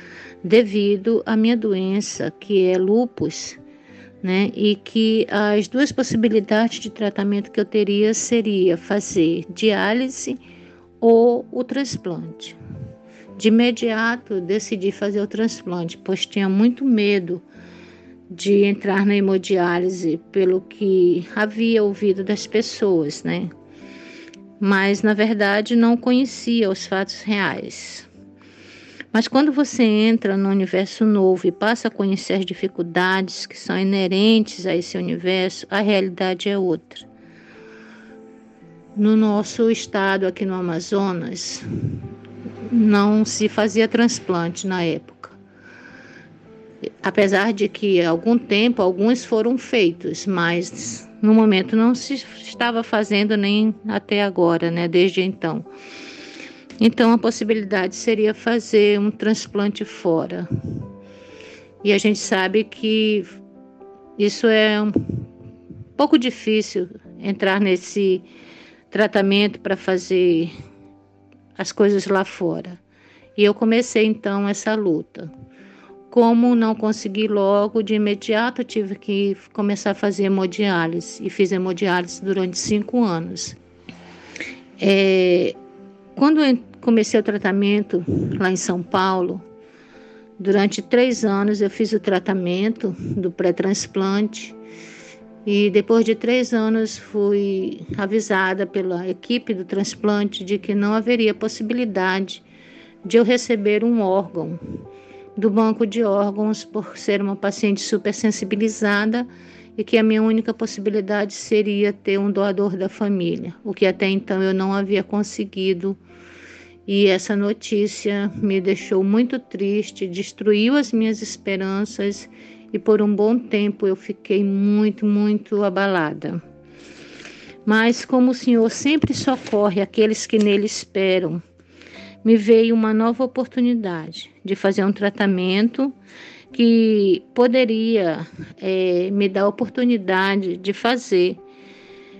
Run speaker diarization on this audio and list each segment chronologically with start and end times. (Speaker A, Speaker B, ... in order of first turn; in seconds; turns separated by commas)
Speaker A: 0.4-3.6, Speaker A: 4.2-10.4, Speaker A: 11.0-12.6, Speaker A: 13.4-17.4, Speaker A: 18.3-23.5, Speaker A: 24.6-28.1, Speaker A: 29.1-37.0, Speaker A: 39.0-41.6, Speaker A: 42.7-45.4, Speaker A: 47.0-55.7, Speaker A: 56.8-60.5, Speaker A: 61.8-63.4, Speaker A: 64.2-65.2, Speaker A: 66.0-68.3, Speaker A: 68.9-70.5, Speaker A: 71.6-72.8, Speaker A: 73.4-75.3, Speaker A: 76.1-83.6, Speaker A: 84.8-85.6, Speaker A: 86.2-89.5, Speaker A: 90.4-94.6, Speaker A: 95.5-102.4, Speaker A: 103.0-104.6, Speaker A: 105.4-116.0, Speaker A: 116.9-126.4, Speaker A: 127.7-131.4, Speaker A: 132.2-135.9, Speaker A: 136.5-141.4